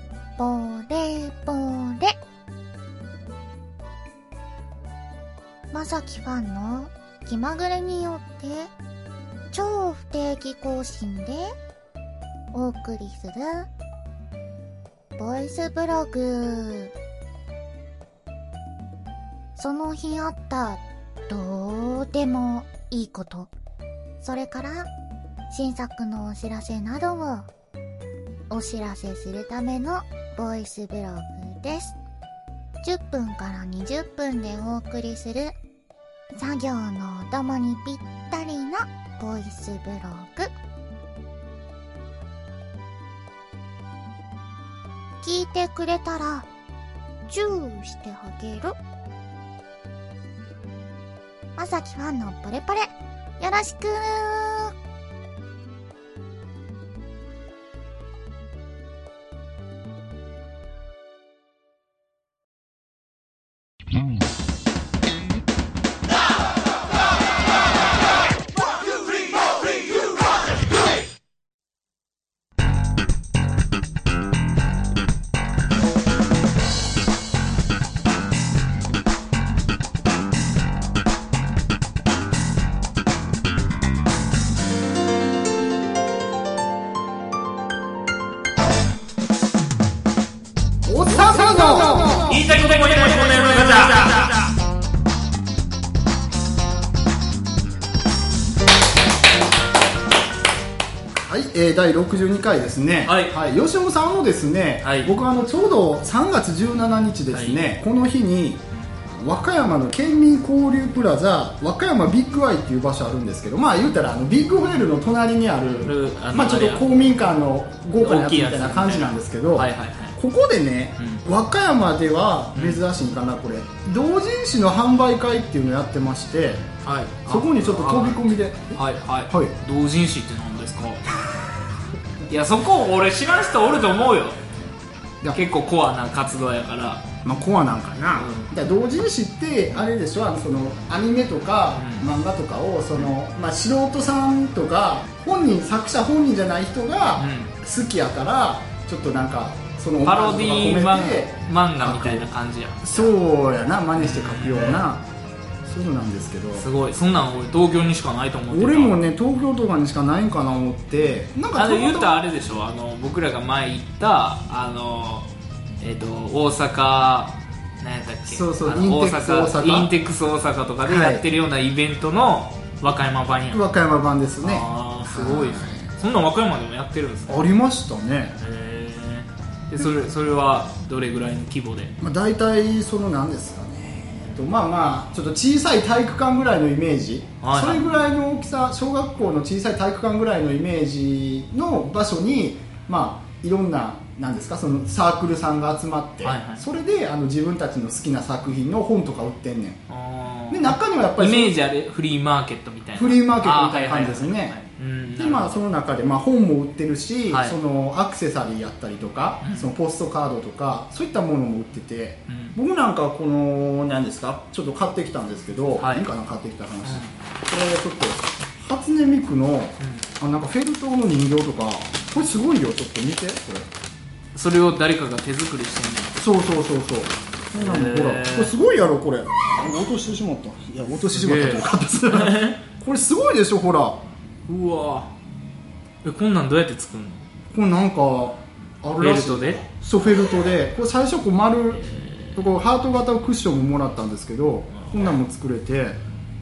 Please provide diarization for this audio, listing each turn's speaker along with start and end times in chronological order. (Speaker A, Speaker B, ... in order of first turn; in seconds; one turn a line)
Speaker A: 0.4-2.1
Speaker A: 5.7-8.7
Speaker A: 9.5-11.5
Speaker A: 12.5-13.7
Speaker A: 15.2-16.9
Speaker A: 19.6-23.5
Speaker A: 24.2-24.9
Speaker A: 25.5-27.5
Speaker A: 28.5-32.0
Speaker A: 32.8-35.5
Speaker A: 36.3-40.5
Speaker A: 45.2-46.5
Speaker A: 47.3-48.8
Speaker A: 51.6-52.9
Speaker A: 53.4-54.7
Speaker B: 90.8-94.2
Speaker C: 92.2-94.5
Speaker B: 101.1-126.7
Speaker C: 103.0-103.4
Speaker C: 104.8-105.1
Speaker C: 107.3-107.6
Speaker C: 115.8-116.9
Speaker C: 118.0-120.2
Speaker C: 121.0-121.2
Speaker C: 122.5-122.8
Speaker C: 126.8-131.1
Speaker B: 127.2-129.5
Speaker C: 132.3-134.4
Speaker C: 135.3-137.1
Speaker B: 137.2-152.3
Speaker C: 138.1-138.5
Speaker C: 141.8-142.1
Speaker C: 147.2-147.5
Speaker C: 150.0-153.1
Speaker B: 152.8-155.0
Speaker C: 154.0-154.8
Speaker B: 155.6-156.7
Speaker C: 156.5-159.0
Speaker B: 158.5-162.2
Speaker C: 161.5-165.3
Speaker C: 165.8-173.6
Speaker B: 168.2-169.9
Speaker B: 170.8-171.2
Speaker B: 173.5-175.9
Speaker C: 174.4-177.4
Speaker B: 177.3-178.4
Speaker C: 178.4-181.9
Speaker B: 182.0-199.8
Speaker C: 187.4-187.8
Speaker C: 196.2-196.7
Speaker C: 199.9-205.6
Speaker B: 200.5-201.6
Speaker B: 202.9-204.6
Speaker B: 205.2-223.7
Speaker C: 207.3-207.6
Speaker C: 209.4-209.7
Speaker C: 212.3-212.6
Speaker C: 215.8-216.1
Speaker C: 216.8-217.1
Speaker C: 219.8-220.1
Speaker C: 224.3-226.1
Speaker B: 226.2-234.0
Speaker C: 227.6-228.5
Speaker C: 231.0-232.6
Speaker C: 234.5-235.1
Speaker C: 236.0-237.2
Speaker B: 237.5-241.8
Speaker C: 239.0-239.6
Speaker C: 241.7-242.4
Speaker B: 242.3-246.0
Speaker C: 244.7-245.2